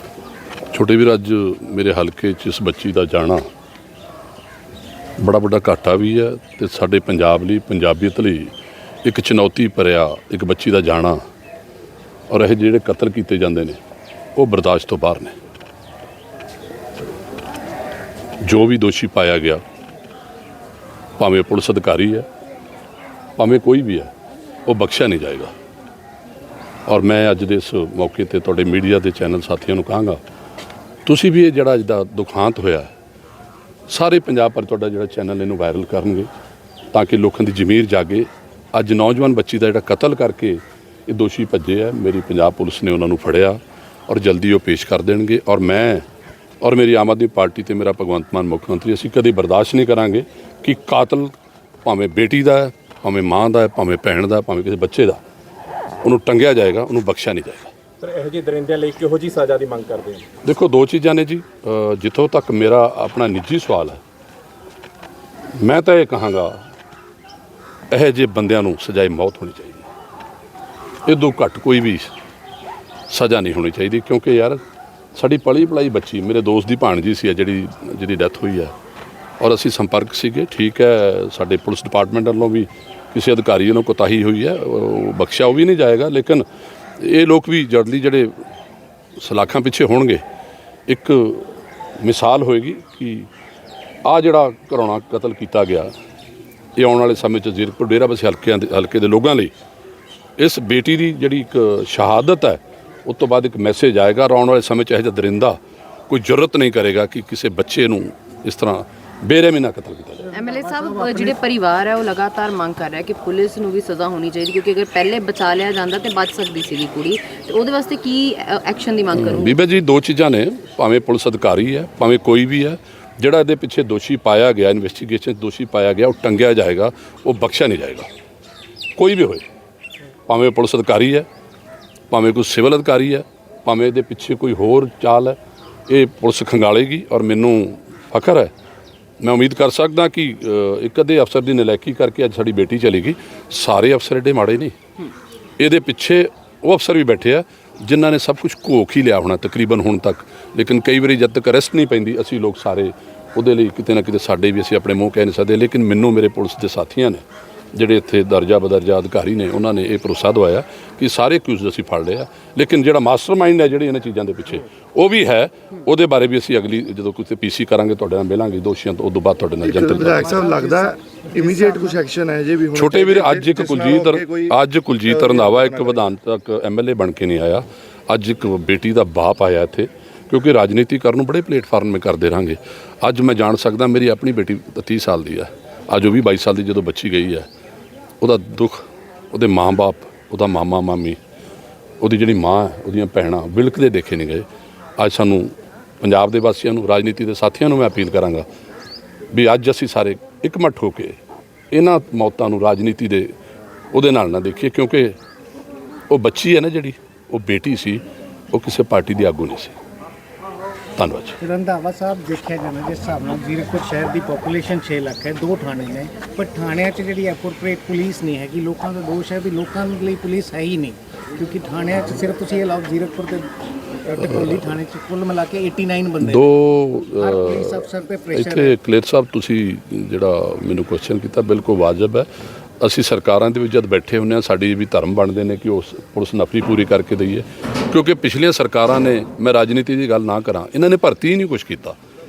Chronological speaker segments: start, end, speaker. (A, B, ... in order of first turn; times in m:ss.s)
0:00.7-0:03.4 A
0:05.2-0:08.5 A
0:09.0-0:11.2 A
0:12.3-0:13.8 A
0:14.4-0:15.4 A
0:18.4-0:19.6 A
0:21.2-0:22.3 A
0:23.4-0:24.1 A
0:24.7-0:25.5 A
0:26.8-0:30.2 A
0:31.0-0:32.9 A
0:33.9-0:36.3 A
0:36.9-0:46.0 A
0:46.6-0:51.3 A
0:51.8-0:55.2 A
0:56.0-0:57.7 A
0:58.1-1:00.2 B
1:00.4-1:04.0 A
1:05.6-1:06.6 A
1:07.9-1:09.9 A
1:11.0-1:12.1 A
1:13.1-1:14.6 A
1:15.2-1:18.7 A
1:19.4-1:26.4 A
1:27.0-1:28.4 A
1:29.2-1:30.2 A
1:30.9-1:33.3 A
1:34.0-1:35.9 A
1:36.8-1:39.5 A
1:40.4-1:50.2 A
1:50.2-1:51.4 C
1:50.3-1:59.6 D
1:59.1-2:08.1 A
2:09.0-2:09.4 A
2:10.3-2:11.3 A
2:12.1-2:18.5 A
2:19.2-2:24.7 A
2:25.6-2:50.4 A
2:49.6-2:56.1 E
2:50.3-2:51.9 C
2:52.7-3:07.5 A
3:08.2-3:11.2 A
3:12.0-3:14.4 A
3:15.0-3:18.4 A
3:19.3-3:21.2 A
3:21.7-3:23.3 A
3:23.9-3:25.1 A
3:26.1-3:29.8 A
3:31.0-3:31.4 A
3:31.4-3:43.5 C
3:44.0-3:46.5 C
3:46.2-3:52.3 A
3:47.2-3:48.7 C
3:52.8-4:02.0 A